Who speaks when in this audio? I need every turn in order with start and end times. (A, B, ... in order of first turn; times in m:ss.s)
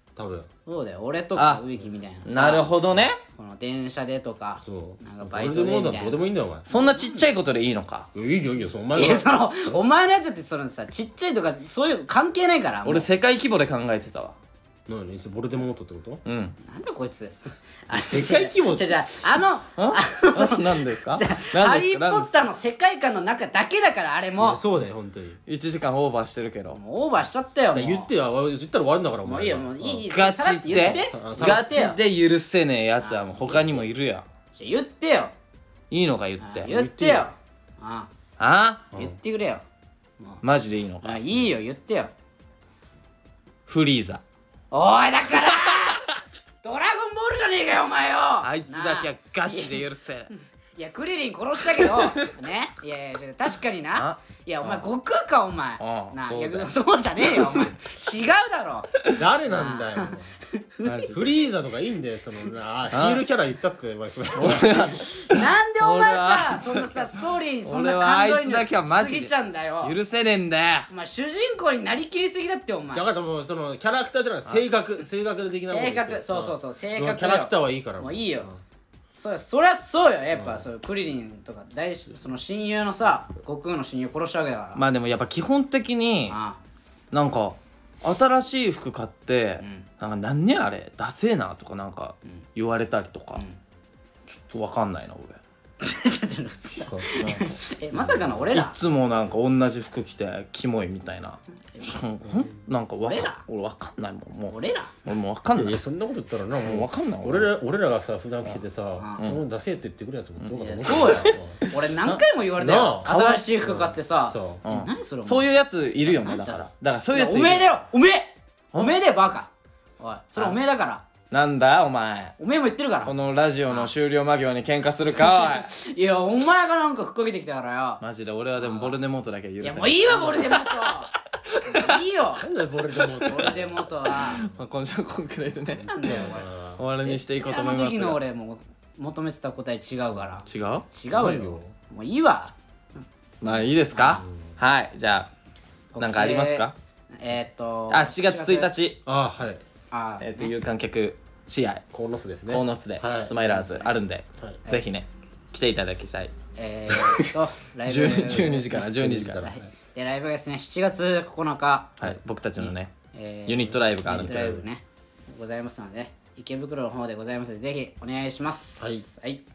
0:00.2-0:00.5 A
0:00.7-0:07.3 B
0:01.4-0:01.6 C
0:02.3-0:03.2 C
0:04.6-0:06.6 A
0:06.7-0:08.1 C
0:08.2-0:09.4 A
0:09.0-0:13.1 B
0:12.8-0:14.4 C
0:14.9-0:16.2 A
0:16.3-0:16.6 C
0:16.6-0:17.4 B
0:17.9-0:24.6 B
0:17.9-0:19.0 A
0:19.8-0:22.3 C
0:24.4-0:25.4 A
0:25.5-0:26.8 C
0:26.7-0:28.1 B
0:27.7-0:30.1 A
0:29.3-0:32.0 B
0:30.1-0:34.2 C
0:30.7-0:31.6 A
0:33.0-0:33.9 B
0:34.6-0:35.3 B
0:35.9-0:36.7 C
0:36.4-0:38.1 B
0:36.7-0:37.3 A
0:38.4-0:38.9 C
0:38.9-0:39.6 B
0:40.4-0:41.2 C
0:41.0-0:42.1 B
0:43.7-0:44.2 C
0:44.7-0:46.0 B
0:46.6-0:49.8 B
0:48.4-0:50.3 C
0:50.8-0:58.9 B
0:51.8-0:52.2 C
0:54.0-0:54.8 C
0:55.8-0:56.7 C
0:57.2-0:57.7 C
0:59.2-1:00.4 A
0:59.5-1:01.1 B
1:00.8-1:01.2 C
1:01.1-1:04.9 A
1:02.9-1:03.2 C
1:04.4-1:10.9 C
1:05.2-1:09.9 B
1:10.9-1:13.0 B
1:12.9-1:18.6 A
1:15.7-1:18.5 B
1:19.2-1:24.8 B
1:20.4-1:20.7 A
1:24.8-1:26.4 C
1:26.3-1:26.6 B
1:27.1-1:33.4 C
1:29.6-1:29.9 B
1:34.5-1:35.4 C
1:35.8-1:38.8 B
1:36.9-1:37.1 A
1:37.2-1:37.5 C
1:38.5-1:45.8 C
1:43.0-1:43.4 B
1:44.5-1:44.9 B
1:45.6-1:51.6 A
1:46.6-1:47.5 C
1:49.0-1:49.3 B
1:50.4-1:52.2 C
1:50.5-2:01.0 B
1:52.6-1:53.1 A
1:53.0-1:53.4 C
1:53.6-1:54.6 A
1:54.6-1:57.7 C
2:01.3-2:02.4 C
2:02.4-2:03.1 B
2:03.0-2:05.7 C
2:05.2-2:08.0 B
2:08.0-2:12.0 C
2:08.6-2:09.0 B
2:09.6-2:11.1 B
2:11.6-2:12.5 B
2:12.4-2:14.6 A
2:13.1-2:18.2 C
2:13.2-2:14.5 B
2:15.8-2:16.5 B
2:16.0-2:16.8 A
2:17.0-2:22.5 B
2:20.5-2:20.9 C
2:21.1-2:21.7 A
2:23.4-2:25.3 C
2:23.9-2:24.2 B
2:25.9-2:26.7 B
2:26.0-2:26.7 C
2:27.2-2:28.7 B
2:27.9-2:29.0 C
2:29.1-2:29.6 A
2:29.9-2:30.5 B
2:30.2-2:31.8 C
2:31.9-2:33.4 A
2:32.5-2:36.3 C
2:33.3-2:33.9 B
2:36.6-2:38.9 B
2:37.8-2:39.5 C
2:38.9-2:39.7 A
2:39.4-2:42.0 B
2:42.0-2:42.9 C
2:42.6-2:49.4 B
2:43.5-2:44.6 C
2:44.1-2:44.6 A
2:48.8-2:49.0 A